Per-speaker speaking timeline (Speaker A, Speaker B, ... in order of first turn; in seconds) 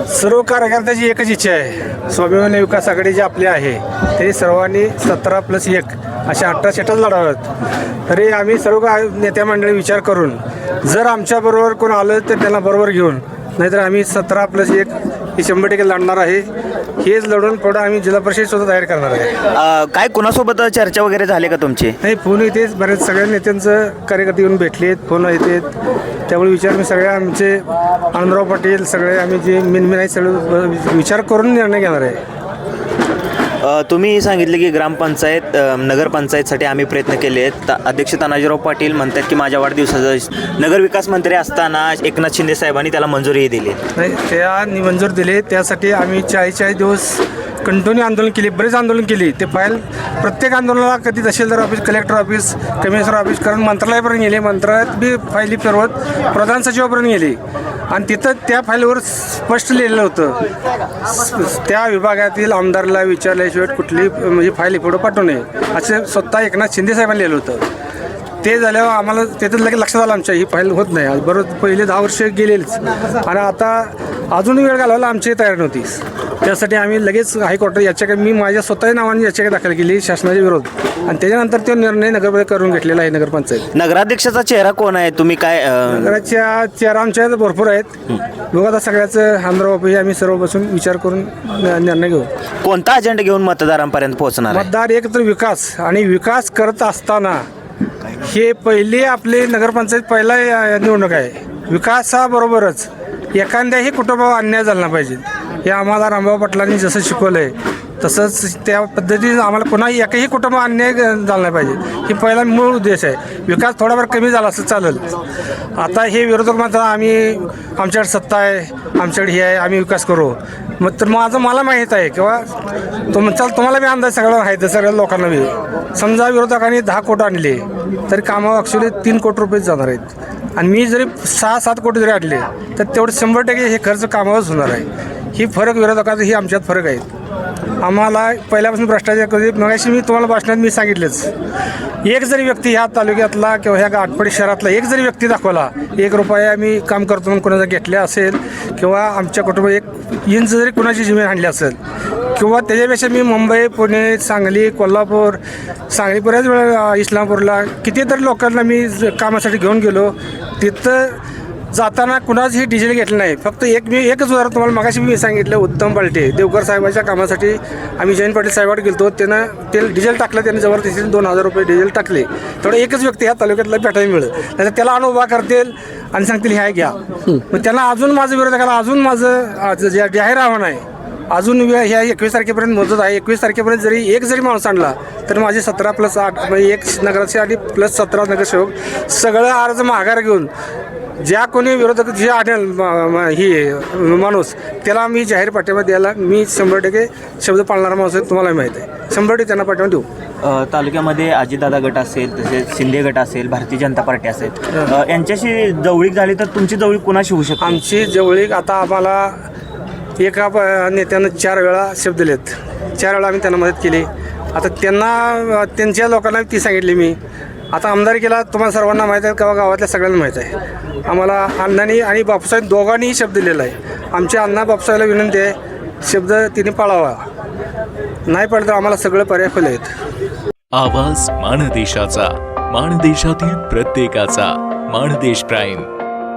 Speaker A: 0.1-7.5, 8.1-16.5, 17.0-19.4, 22.0-25.7, 26.3-32.2, 44.0-57.4, 57.9-60.4, 61.1-67.7, 68.4-83.7, 85.9-87.9, 88.5-92.3, 94.5-97.4, 98.2-115.1, 115.8-122.6, 123.1-137.1, 137.8-141.3, 142.0-151.8, 152.3-161.2, 161.7-190.5, 191.2-200.1, 207.6-209.4, 210.2-217.2, 217.7-220.5, 221.1-227.2, 228.3-229.9
Speaker B: 19.5-22.0, 33.6-43.8, 83.7-86.1, 92.6-94.7, 200.4-207.8
Speaker C: 230.8-235.9